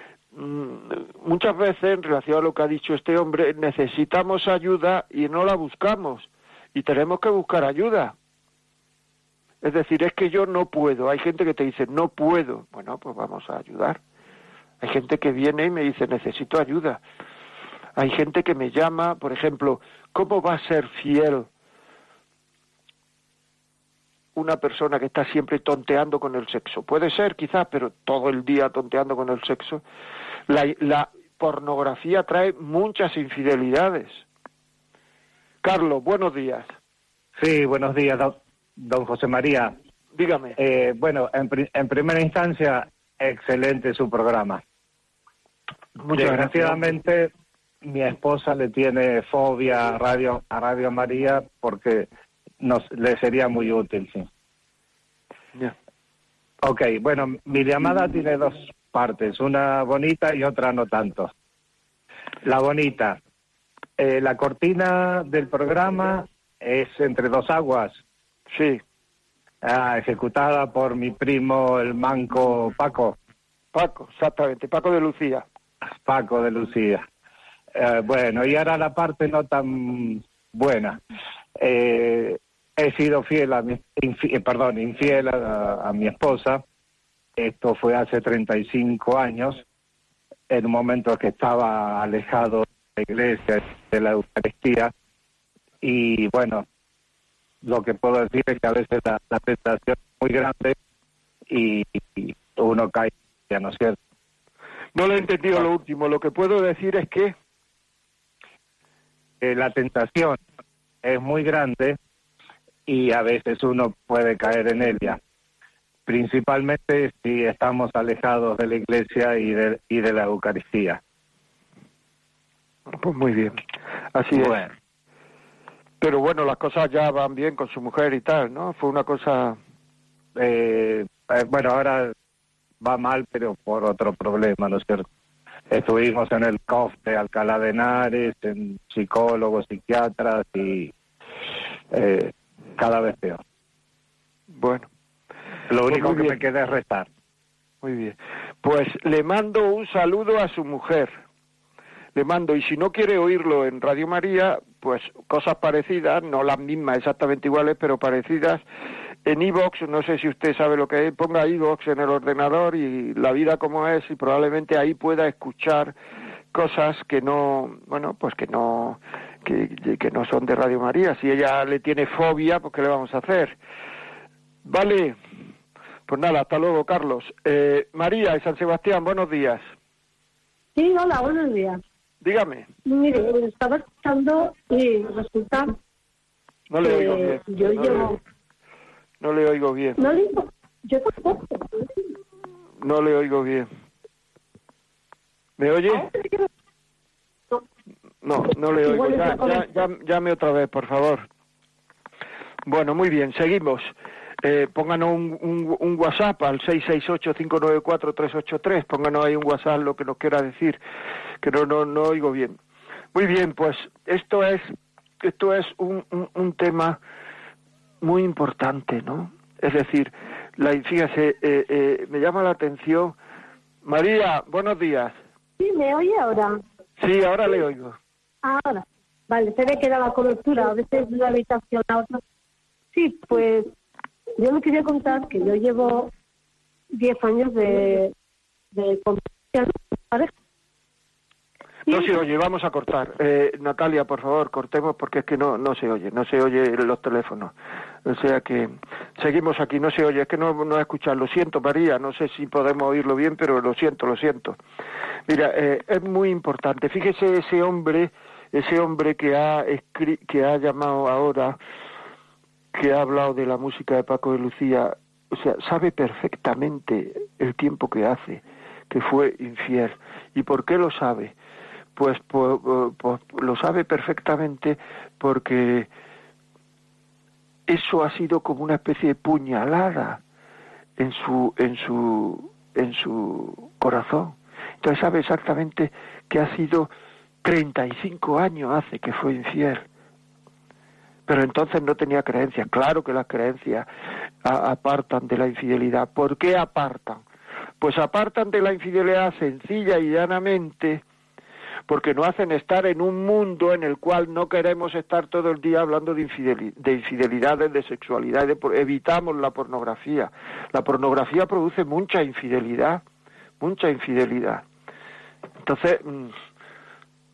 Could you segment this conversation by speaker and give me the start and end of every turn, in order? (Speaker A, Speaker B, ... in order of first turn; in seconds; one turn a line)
Speaker A: 0.3-8.1
Speaker A: 9.6-14.0
Speaker A: 14.8-17.0
Speaker A: 18.0-21.5
Speaker A: 24.4-29.8
Speaker A: 30.5-34.2
Speaker A: 35.6-36.7
Speaker B: 37.4-39.8
Speaker A: 40.1-40.6
Speaker B: 40.6-44.6
Speaker A: 46.0-46.8
Speaker B: 46.1-47.3
Speaker B: 47.8-52.1
Speaker B: 52.6-54.3
Speaker B: 56.6-61.3
Speaker B: 62.4-63.2
Speaker B: 64.0-68.0
Speaker A: 68.5-68.8
Speaker B: 69.6-73.2
Speaker A: 73.7-75.4
Speaker B: 76.0-77.0
Speaker B: 77.7-81.0
Speaker B: 81.6-86.6
Speaker B: 87.4-89.6
Speaker B: 90.5-94.9
Speaker B: 95.8-96.6
Speaker B: 97.6-100.8
Speaker B: 101.5-104.0
Speaker A: 105.0-107.3
Speaker B: 109.4-110.4
Speaker B: 111.0-112.0
Speaker B: 112.9-115.2
Speaker B: 116.1-121.0
Speaker A: 122.9-123.6
Speaker A: 124.1-124.6
Speaker B: 124.3-124.7
Speaker A: 126.0-129.6
Speaker B: 130.4-132.1
Speaker B: 132.8-135.1
Speaker B: 135.7-140.9
Speaker B: 141.9-143.4
Speaker A: 144.5-144.9
Speaker B: 145.7-147.1
Speaker A: 145.9-146.4
Speaker A: 147.8-151.1
Speaker A: 152.1-158.6
Speaker A: 159.2-165.9
Speaker A: 166.5-173.6
Speaker A: 174.6-175.2
Speaker A: 176.1-179.6
Speaker C: 180.8-181.8
Speaker A: 182.2-182.7
Speaker C: 182.9-185.8
Speaker A: 186.7-188.2
Speaker C: 186.8-188.2
Speaker A: 189.2-190.0
Speaker C: 190.0-192.0
Speaker A: 192.8-193.7
Speaker A: 195.6-196.1
Speaker C: 196.0-196.4
Speaker A: 198.2-201.3
Speaker C: 198.8-199.7
Speaker A: 202.6-210.8
Speaker A: 211.4-212.6
Speaker A: 213.1-217.0
Speaker A: 218.0-223.2
Speaker A: 223.8-225.2
Speaker C: 225.6-226.6
Speaker A: 227.0-228.0
Speaker C: 228.4-232.2
Speaker C: 232.9-233.7
Speaker C: 234.4-236.1
Speaker C: 236.9-238.1
Speaker C: 238.7-240.3
Speaker C: 241.9-242.2
Speaker A: 241.9-247.5
Speaker A: 248.1-254.6
Speaker A: 255.3-261.6
Speaker A: 262.7-271.3
Speaker A: 271.9-275.9
Speaker A: 277.7-280.2
Speaker A: 281.0-286.9
Speaker A: 287.4-289.9
Speaker A: 291.3-293.9
Speaker A: 294.4-297.2
Speaker A: 297.8-301.0
Speaker A: 301.9-313.0
Speaker A: 313.6-314.6
Speaker A: 315.6-316.3